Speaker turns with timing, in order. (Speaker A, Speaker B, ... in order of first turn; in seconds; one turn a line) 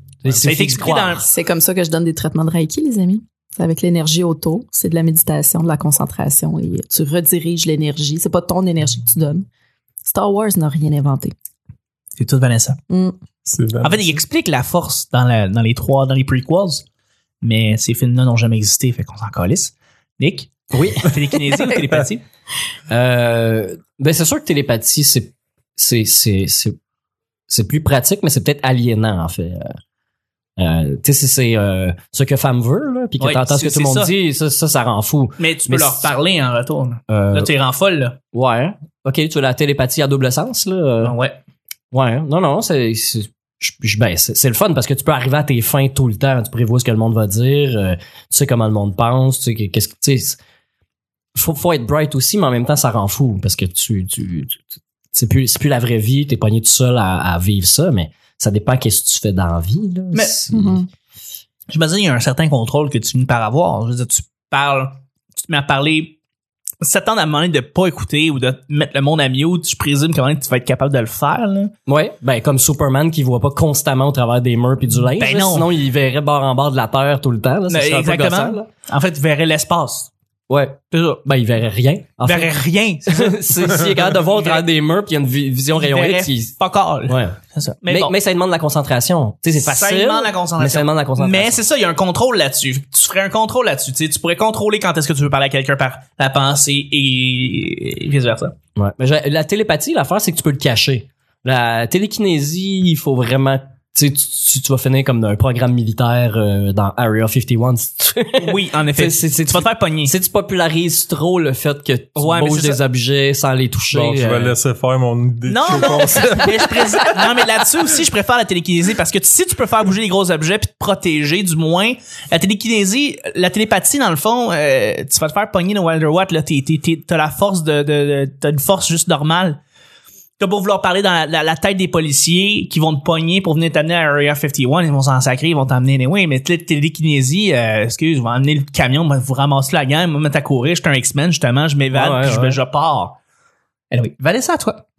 Speaker A: 0.2-1.2
Speaker B: 0.3-1.3
Speaker C: 1.2-9.5
Speaker C: 10.1-11.3
Speaker B: 12.2-12.8
Speaker C: 12.9-13.2
Speaker D: 13.4-14.2
Speaker B: 13.8-16.9
Speaker B: 17.4-22.2
Speaker A: 20.7-21.2
Speaker A: 22.9-26.8
Speaker A: 27.5-29.7
Speaker A: 30.6-36.1
Speaker B: 33.2-34.1
Speaker B: 35.4-38.2
Speaker A: 37.1-37.5
Speaker A: 38.3-41.2
Speaker B: 41.0-41.4
Speaker A: 41.9-50.4
Speaker A: 51.4-60.8
Speaker B: 60.1-60.4
Speaker C: 60.5-60.9
Speaker B: 61.7-66.2
Speaker B: 66.8-71.7
Speaker A: 71.9-78.7
Speaker B: 75.2-75.7
Speaker B: 77.7-80.1
Speaker A: 80.5-82.5
Speaker B: 80.9-81.2
Speaker B: 82.2-84.7
Speaker A: 83.1-86.5
Speaker B: 85.8-88.1
Speaker A: 87.1-91.6
Speaker B: 89.6-98.5
Speaker A: 98.8-114.6
Speaker B: 108.4-110.1
Speaker B: 112.2-112.8
Speaker D: 113.9-116.8
Speaker B: 115.5-129.6
Speaker B: 130.4-143.2
Speaker A: 141.9-142.6
Speaker B: 143.9-144.8